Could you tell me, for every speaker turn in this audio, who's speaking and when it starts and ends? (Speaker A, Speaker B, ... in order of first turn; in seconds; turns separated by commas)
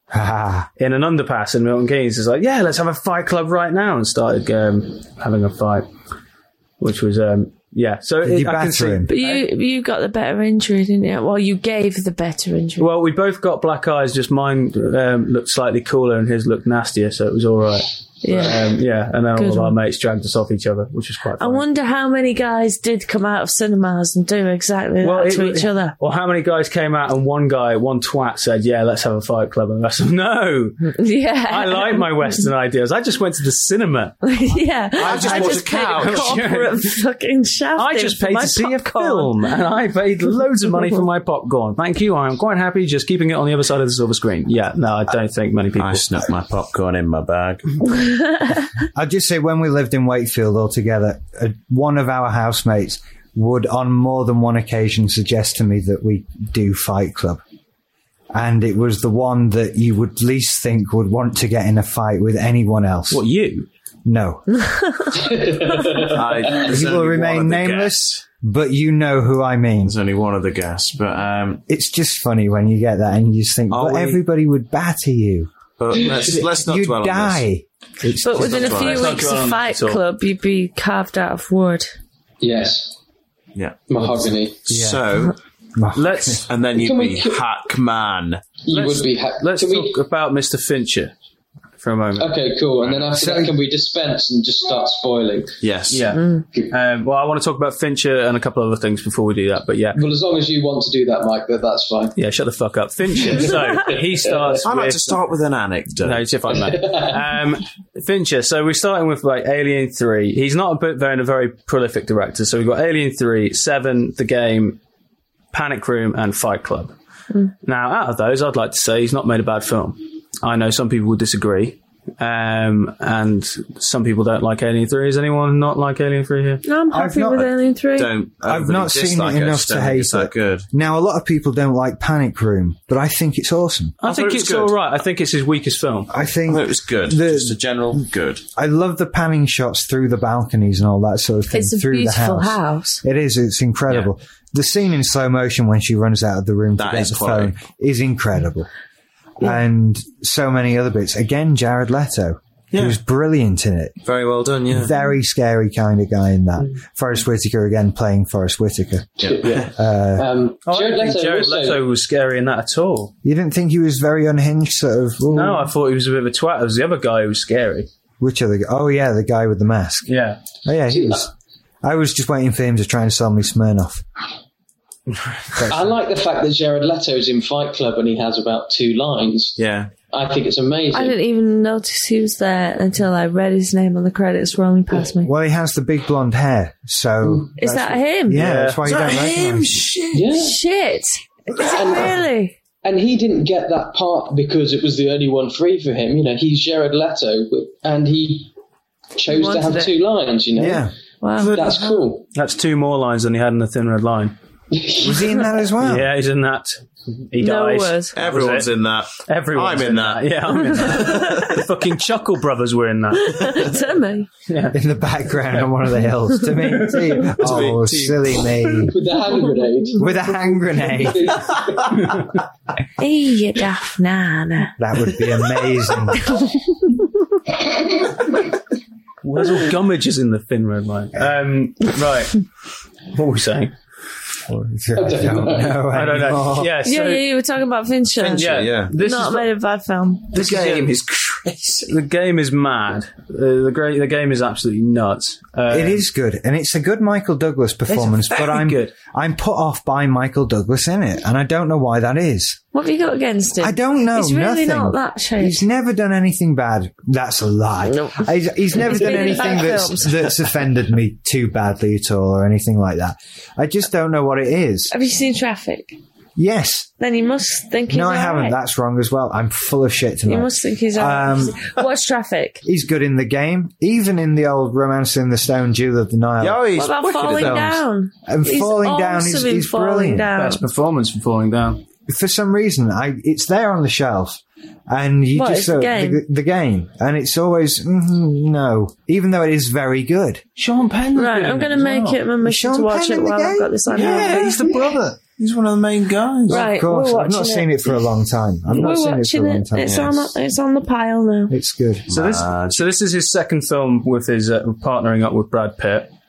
Speaker A: 0.1-0.7, Speaker B: 0.8-5.9, Speaker B: 6.8-9.4, Speaker A: 8.2-9.1, Speaker C: 9.1-12.9, Speaker B: 12.8-21.6, Speaker C: 18.2-18.7, Speaker C: 19.4-19.8, Speaker C: 21.4-25.9, Speaker B: 25.0-30.9, Speaker C: 30.9-32.3, Speaker B: 31.5-34.3, Speaker C: 34.2-39.3, Speaker D: 35.0-36.5, Speaker B: 35.0-36.9, Speaker B: 37.7-46.1, Speaker D: 45.8-47.8, Speaker C: 48.0-48.5, Speaker A: 48.9-57.4, Speaker A: 58.3-63.2, Speaker B: 63.1-63.7, Speaker A: 64.0-64.5, Speaker C: 64.6-65.1, Speaker E: 65.1-66.6, Speaker D: 66.0-68.2, Speaker A: 66.5-69.9, Speaker D: 69.8-71.6, Speaker A: 71.7-78.8, Speaker D: 73.7-74.2, Speaker D: 75.8-77.5, Speaker C: 78.2-81.9, Speaker D: 78.2-79.2, Speaker B: 78.6-80.0, Speaker E: 82.4-82.9, Speaker D: 83.5-83.9, Speaker E: 83.9-84.6, Speaker D: 84.6-85.3, Speaker A: 84.7-85.1, Speaker A: 85.7-86.4, Speaker B: 85.9-86.5, Speaker D: 86.5-88.4, Speaker E: 86.7-87.4, Speaker E: 88.6-90.0, Speaker B: 88.7-91.1, Speaker B: 91.8-92.4, Speaker E: 92.2-95.5, Speaker A: 93.1-93.5, Speaker D: 95.6-96.1, Speaker B: 95.9-100.0, Speaker C: 96.2-96.4, Speaker E: 99.9-102.2, Speaker B: 102.2-105.2, Speaker E: 103.3-104.5, Speaker D: 104.6-106.2, Speaker B: 106.0-114.8, Speaker E: 106.7-107.2, Speaker B: 115.5-116.9, Speaker B: 117.6-126.6, Speaker C: 126.6-128.1, Speaker A: 126.9-127.5, Speaker D: 128.0-130.7, Speaker A: 128.4-133.9, Speaker B: 134.0-136.1, Speaker D: 134.0-134.7, Speaker A: 136.1-138.0, Speaker D: 136.5-138.4, Speaker A: 138.5-148.7, Speaker C: 141.5-143.0, Speaker D: 146.8-147.6, Speaker A: 149.4-154.0, Speaker D: 152.7-153.0, Speaker D: 154.0-154.9, Speaker A: 154.7-160.3, Speaker D: 159.2-159.7, Speaker E: 159.3-161.8, Speaker B: 160.7-163.1, Speaker A: 163.2-165.7, Speaker B: 165.3-167.9, Speaker A: 168.2-170.1, Speaker B: 170.1-170.4, Speaker A: 170.6-171.3, Speaker E: 170.9-171.2, Speaker A: 171.8-174.0, Speaker A: 175.5-176.0, Speaker E: 175.7-179.6, Speaker D: 179.6-179.9, Speaker E: 180.1-181.2, Speaker C: 180.9-185.3, Speaker A: 185.2-189.8, Speaker C: 187.6-188.5, Speaker B: 188.3-188.8, Speaker D: 188.8-190.3, Speaker E: 190.1-190.6, Speaker C: 190.3-192.5, Speaker E: 191.6-192.2, Speaker E: 192.8-198.5, Speaker E: 199.1-202.2, Speaker C: 199.3-199.9, Speaker A: 200.6-200.9, Speaker C: 201.2-202.0, Speaker B: 202.3-204.3, Speaker E: 204.7-205.4, Speaker A: 205.0-206.1, Speaker B: 205.8-213.7, Speaker C: 207.4-208.2, Speaker D: 208.1-211.6, Speaker C: 210.7-211.4, Speaker C: 213.1-214.3, Speaker B: 214.5-214.7, Speaker A: 214.7-218.9, Speaker B: 216.7-217.2, Speaker D: 217.3-218.9, Speaker E: 218.9-222.0, Speaker A: 220.0-221.4, Speaker B: 221.9-222.3, Speaker C: 223.0-224.7, Speaker A: 224.8-226.3, Speaker C: 226.2-226.5, Speaker B: 229.2-232.4, Speaker B: 233.1-233.7, Speaker A: 234.5-236.7, Speaker E: 234.9-235.8, Speaker B: 235.9-237.2, Speaker C: 236.8-240.3, Speaker D: 238.2-238.9, Speaker B: 238.3-239.5, Speaker B: 240.3-240.9, Speaker D: 240.3-241.9, Speaker B: 241.9-246.1, Speaker A: 245.7-252.6, Speaker B: 247.9-248.9, Speaker C: 252.7-255.6, Speaker A: 253.6-264.9, Speaker C: 257.9-260.4, Speaker C: 264.9-266.0, Speaker A: 266.4-266.9, Speaker C: 267.0-268.6, Speaker A: 267.9-271.7, Speaker C: 270.3-272.6, Speaker A: 272.6-276.6, Speaker D: 276.4-277.8, Speaker C: 276.7-280.6, Speaker A: 277.2-280.3, Speaker B: 280.3-281.8, Speaker A: 282.1-290.4, Speaker C: 285.3-286.2, Speaker B: 290.6-292.2, Speaker C: 291.1-294.7, Speaker A: 292.4-294.0, Speaker D: 293.9-296.7, Speaker B: 294.0-295.0, Speaker C: 296.5-297.9, Speaker A: 296.5-300.1, Speaker C: 298.7-301.5, Speaker D: 299.8-300.3, Speaker A: 301.5-302.1, Speaker D: 302.1-302.8, Speaker B: 302.1-306.1